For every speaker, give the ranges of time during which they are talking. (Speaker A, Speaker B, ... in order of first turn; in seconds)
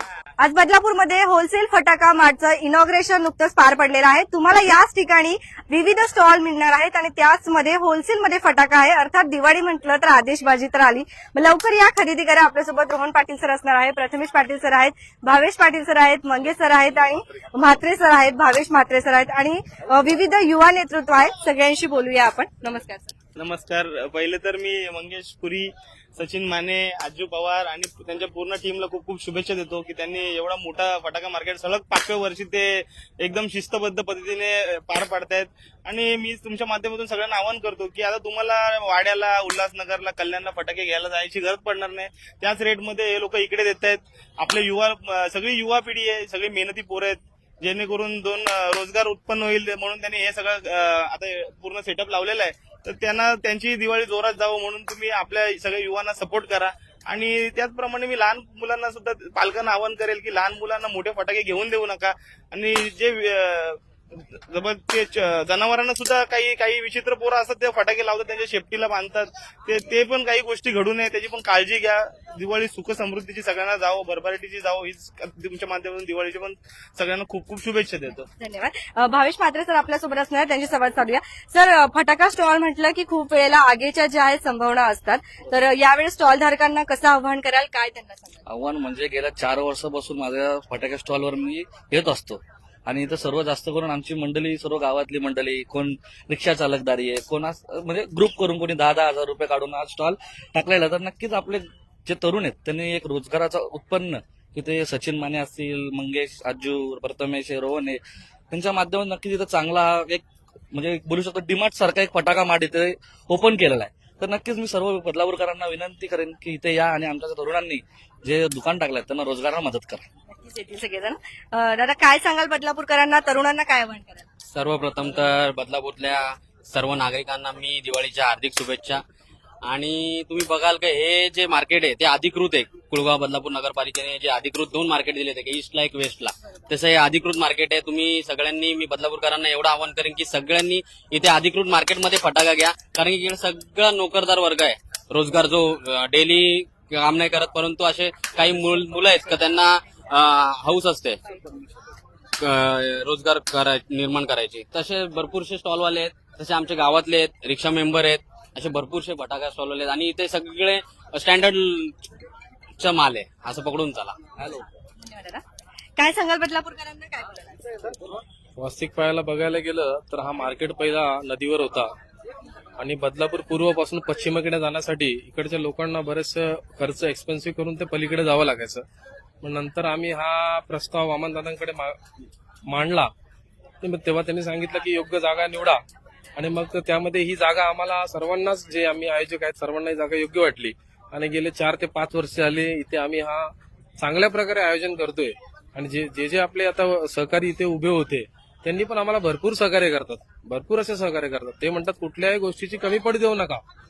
Speaker A: 0.4-23.1, 78.4-88.4, 120.3-124.2, 165.0-165.4, 166.0-167.7
Speaker B: 23.4-78.3
Speaker C: 88.5-108.0, 108.5-120.0
Speaker D: 124.5-129.0, 129.7-151.2, 152.4-161.9, 162.8-164.1
Speaker E: 168.6-171.9, 172.8-178.8, 179.4-182.0, 182.7-183.1, 183.8-185.8, 186.4-203.6